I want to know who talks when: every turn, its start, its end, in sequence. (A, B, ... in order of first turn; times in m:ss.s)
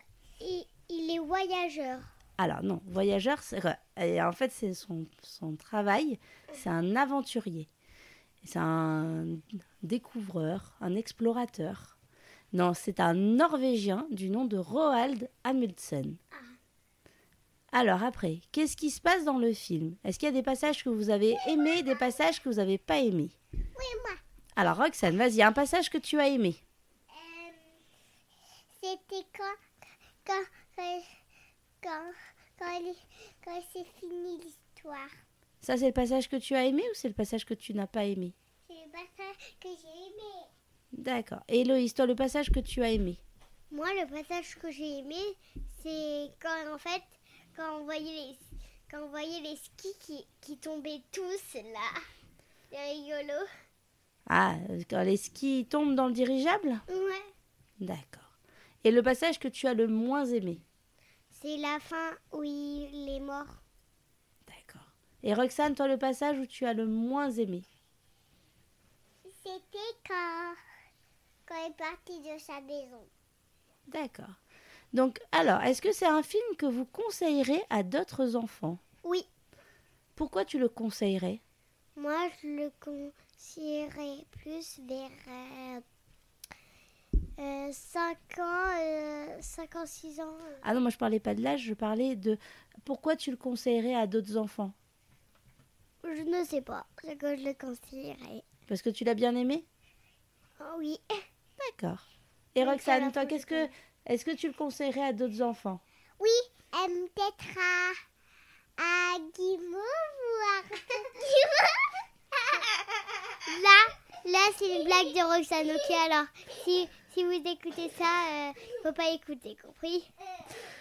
0:00.4-0:02.0 A
0:02.4-0:07.7 B
0:08.4-0:12.0 B
0:12.5-0:16.2 B
0:17.7-0:23.4 B
0:23.8-0:24.2 A
0:24.6-0:26.6 B
0:27.1-0:27.6 A
0:28.8-0:29.6 A
0:30.2-0:31.1 A
0:31.8-0:35.1 A
0:35.6-0:38.4 B
0:38.7-0:40.5 A
0:40.9-0:43.2 B
0:43.7-0:51.9 A
0:52.7-0:53.5 A
0:54.3-0:56.8 B
0:56.9-0:57.3 A
0:57.8-0:58.3 B
0:58.8-1:00.6 B
1:01.3-1:03.6 A
1:04.5-1:07.7 B
1:09.3-1:10.6 A
1:11.5-1:13.1 A
1:13.9-1:14.4 B
1:14.9-1:18.8 B
1:20.2-1:21.4 B
1:22.0-1:25.8 A
1:27.4-1:30.6 A
1:30.6-1:34.8 B
1:36.0-1:38.5 A
1:38.7-1:39.7 B
1:40.6-1:41.2 A
1:41.6-1:42.0 B
1:42.6-1:45.8 B
1:42.6-1:43.7 A
1:46.2-1:48.0 A
1:48.8-1:52.0 A
1:53.4-2:00.1 A